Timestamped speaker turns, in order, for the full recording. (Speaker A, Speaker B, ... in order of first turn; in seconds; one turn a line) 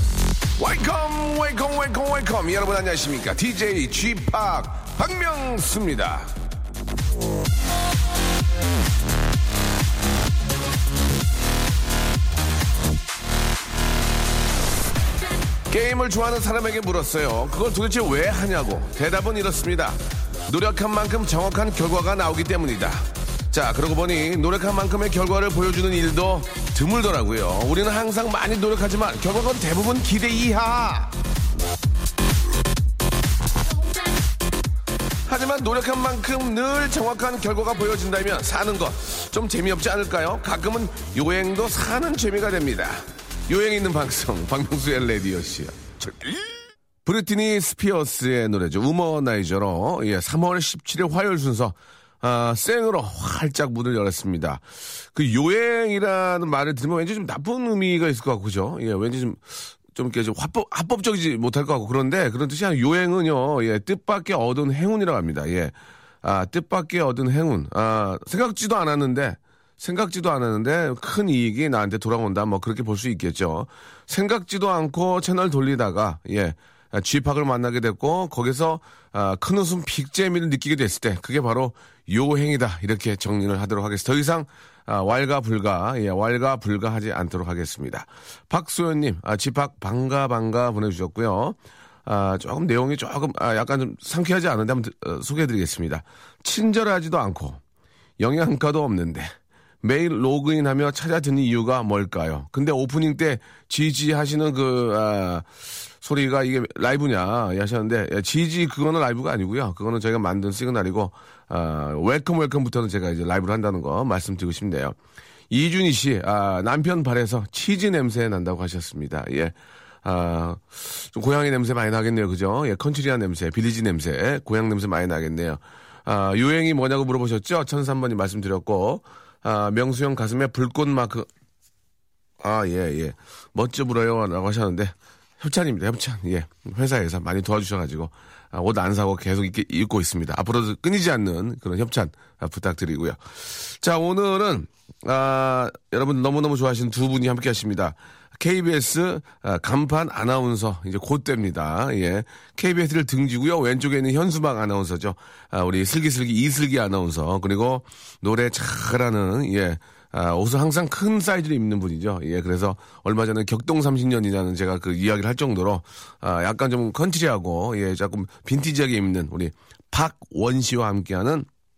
Speaker A: 0.6-6.3
Speaker A: 15.7-31.1
Speaker A: 35.2-46.5
Speaker A: 47.0-97.6
Speaker A: 98.2-105.5
Speaker A: 106.0-115.0
Speaker A: 115.5-131.3
Speaker A: 132.4-171.5